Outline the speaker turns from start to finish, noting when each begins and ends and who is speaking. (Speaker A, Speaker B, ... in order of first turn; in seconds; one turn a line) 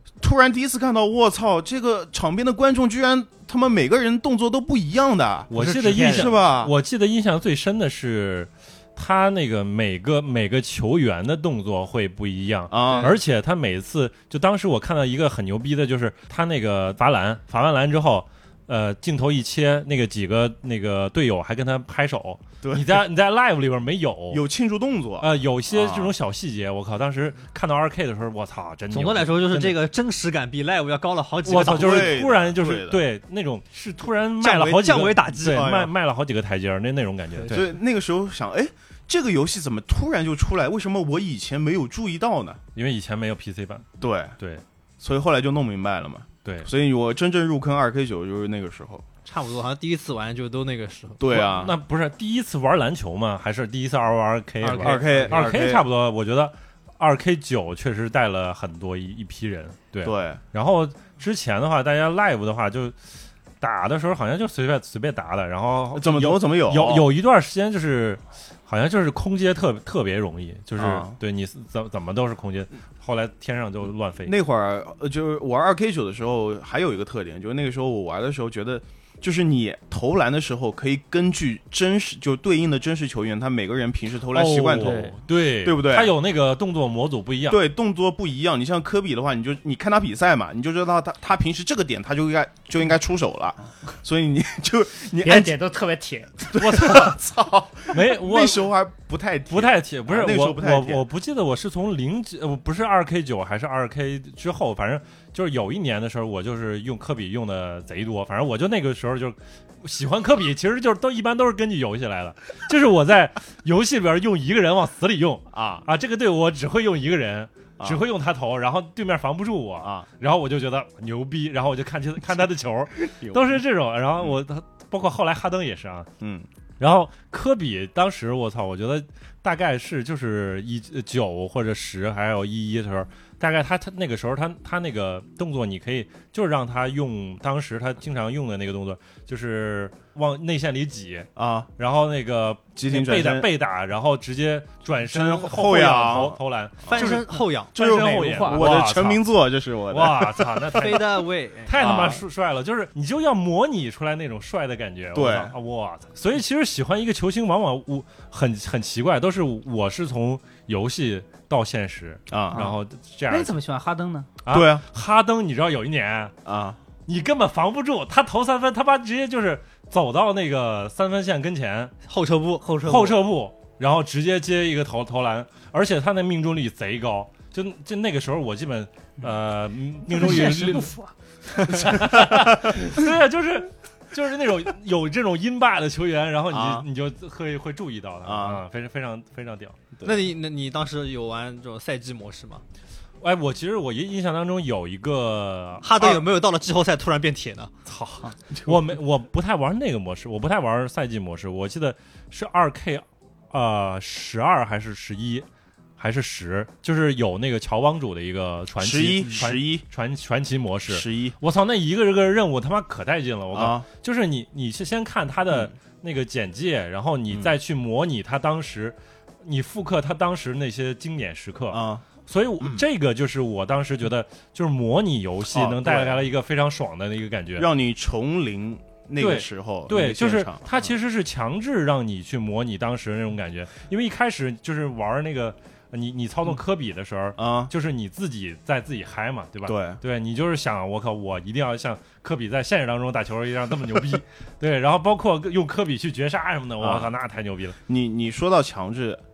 Speaker A: 0.2-6.7
Speaker B: 5.5-24.4
Speaker C: 5.5-6.3
Speaker A: 12.7-13.2
Speaker C: 12.9-13.2
Speaker A: 22.6-23.0
Speaker A: 24.3-26.2
Speaker B: 25.2-29.8
Speaker C: 28.9-32.2
Speaker B: 31.4-37.7
Speaker A: 31.5-33.0
Speaker C: 34.4-35.9
Speaker C: 37.4-37.7
Speaker A: 37.5-42.6
Speaker B: 42.8-43.9
Speaker A: 44.0-44.4
Speaker A: 45.0-49.0
Speaker C: 49.2-51.2
Speaker A: 51.2-51.8
Speaker B: 51.3-63.0
Speaker C: 54.6-55.5
Speaker A: 54.8-55.9
Speaker A: 60.0-60.4
Speaker B: 63.6-74.3
Speaker A: 66.0-67.1
Speaker A: 70.8-71.2
Speaker A: 74.3-86.1
Speaker B: 84.3-87.6
Speaker A: 87.5-95.5
Speaker D: 95.2-96.7
Speaker A: 96.4-101.0
Speaker B: 96.6-97.1
Speaker B: 97.9-98.7
Speaker B: 99.5-126.1
Speaker A: 115.5-115.8
Speaker A: 123.2-123.6
Speaker A: 126.2-126.5
Speaker B: 126.8-149.2
Speaker A: 141.4-141.7
Speaker A: 142.8-143.5
Speaker A: 145.1-147.2
Speaker C: 146.9-148.6
Speaker A: 147.7-151.0
Speaker B: 149.9-163.5
Speaker C: 150.7-152.0
Speaker A: 151.7-152.2
Speaker A: 155.1-155.6
Speaker A: 162.3-162.7
Speaker D: 163.3-164.3
Speaker B: 164.4-166.3
Speaker A: 164.5-164.8
Speaker A: 166.4-166.8
Speaker B: 167.1-171.9
Speaker C: 172.1-172.7
Speaker D: 172.6-173.2
Speaker B: 172.8-180.9
Speaker D: 180.1-181.1
Speaker B: 181.5-189.8
Speaker A: 181.7-182.7
Speaker A: 186.5-186.9
Speaker A: 188.2-188.6
Speaker A: 190.0-190.3
Speaker C: 190.0-192.6
Speaker B: 193.2-196.1
Speaker C: 195.8-197.7
Speaker B: 197.9-205.5
Speaker B: 206.0-227.7
Speaker A: 208.8-209.8
Speaker A: 210.9-211.3
Speaker A: 213.5-213.8
Speaker A: 221.7-222.0
Speaker A: 225.5-226.3
Speaker A: 227.6-230.9
Speaker B: 229.2-247.8
Speaker A: 237.4-237.7
Speaker A: 239.7-240.0
Speaker A: 246.8-247.1
Speaker A: 247.9-249.2